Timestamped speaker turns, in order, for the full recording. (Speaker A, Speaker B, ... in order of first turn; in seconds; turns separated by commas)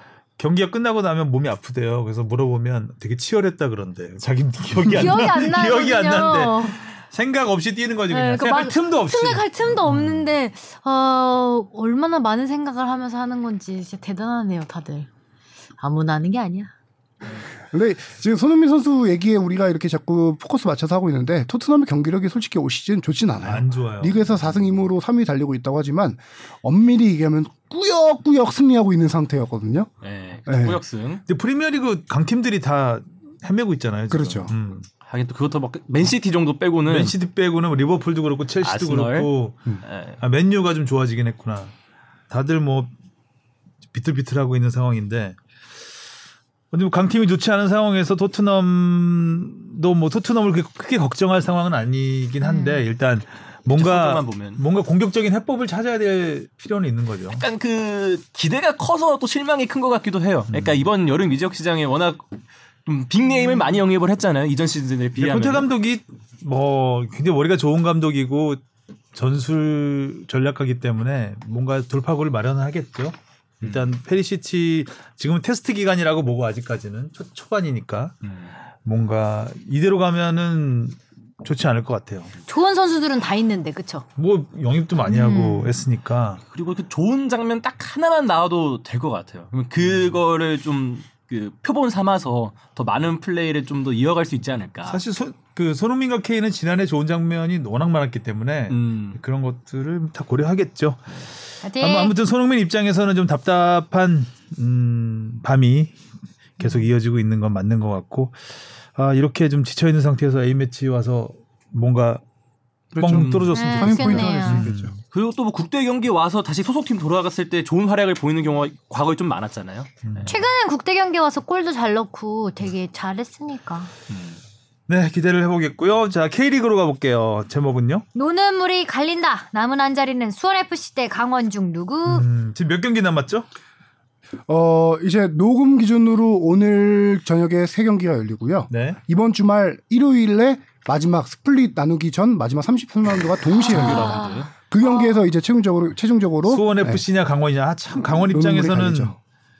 Speaker A: 0.4-10.3, Speaker B: 4.9-6.8, Speaker B: 8.1-15.1, Speaker B: 15.8-16.7, Speaker C: 17.7-29.9, Speaker A: 23.4-24.2, Speaker D: 30.0-31.2, Speaker C: 30.5-30.8, Speaker A: 31.3-34.9, Speaker C: 34.1-34.5, Speaker D: 35.0-37.1, Speaker A: 36.9-39.6, Speaker D: 38.6-39.3, Speaker D: 39.8-40.2, Speaker A: 40.2-41.7, Speaker A: 42.3-42.9, Speaker A: 43.9-45.4, Speaker A: 46.7-57.4, Speaker B: 52.4-52.8, Speaker D: 53.7-54.6, Speaker D: 57.3-62.3, Speaker A: 60.5-60.9, Speaker D: 62.9-65.7, Speaker A: 65.2-68.6, Speaker A: 69.1-78.2, Speaker D: 78.2-78.5, Speaker A: 78.8-82.3, Speaker B: 82.5-84.0, Speaker A: 84.2-86.4, Speaker B: 85.0-85.8, Speaker D: 86.5-95.0, Speaker A: 89.8-90.2, Speaker A: 94.9-101.2, Speaker D: 98.7-99.2, Speaker B: 101.6-102.1, Speaker A: 101.8-106.0, Speaker A: 106.6-112.2, Speaker B: 106.6-106.8, Speaker C: 112.9-114.9, Speaker A: 113.0-115.0, Speaker B: 113.5-114.7, Speaker D: 115.1-120.4, Speaker A: 120.1-120.4, Speaker B: 120.3-123.9, Speaker D: 124.1-124.4, Speaker A: 124.9-128.1, Speaker B: 128.2-132.3, Speaker A: 132.1-133.5, Speaker C: 134.5-147.0, Speaker A: 138.7-139.0, Speaker D: 143.6-144.5, Speaker B: 143.6-144.5, Speaker A: 146.5-149.2, Speaker C: 148.0-149.2